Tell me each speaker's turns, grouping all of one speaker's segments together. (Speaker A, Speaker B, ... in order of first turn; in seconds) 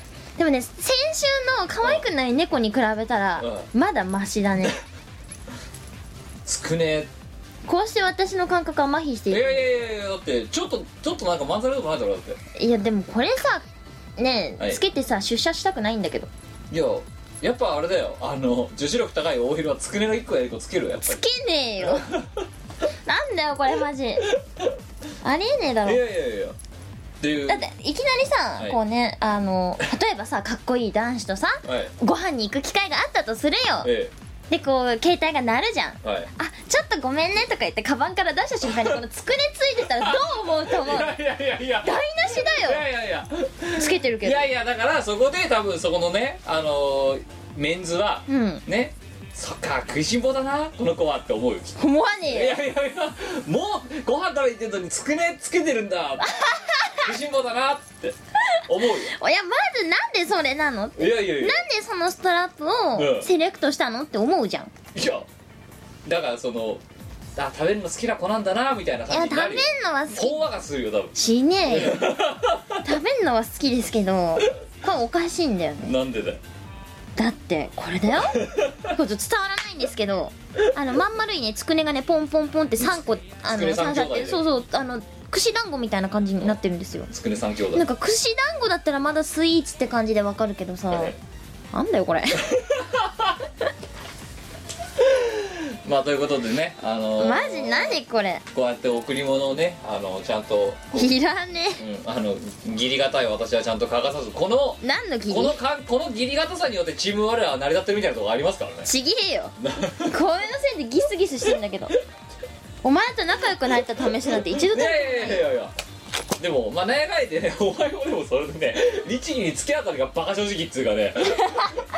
Speaker A: 0.4-4.8, 7.7-9.7, 12.6-13.7, 14.2-16.3, 21.0-22.1, 23.1-24.3, 25.2-26.0, 27.5-33.9, 34.5-41.2, 41.8-42.9, 43.8-44.5, 48.3-48.6, 51.8-52.6, 56.2-57.1, 58.4-64.7, 69.1-70.4, 71.2-72.2, 72.8-76.0, 77.2-87.1, 87.7-91.2, 91.7-92.5, 97.2-98.5, 100.9-101.8, 104.8-105.6, 108.8-112.0, 112.8-115.5, 121.3-121.8
Speaker B: 3.4-3.7, 6.5-7.1, 9.3-12.4, 16.7-21.2, 21.8-22.5, 24.3-24.7, 25.9-26.6, 27.2-27.6, 31.6-31.9, 33.8-34.1, 36.0-36.3, 38.6-39.0, 39.9-51.8, 52.3-58.1, 58.7-59.1, 61.0-61.6, 63.0-63.3, 65.0-65.3, 66.0-66.8, 67.4-71.2, 71.7-72.8, 75.8-76.4, 78.3-78.9, 82.8-84.4, 87.1-87.9, 90.9-91.2, 92.4-93.3, 95.0-98.0, 98.5-101.1, 101.8-108.9, 109.6-110.2, 114.2-115.7, 116.4-121.7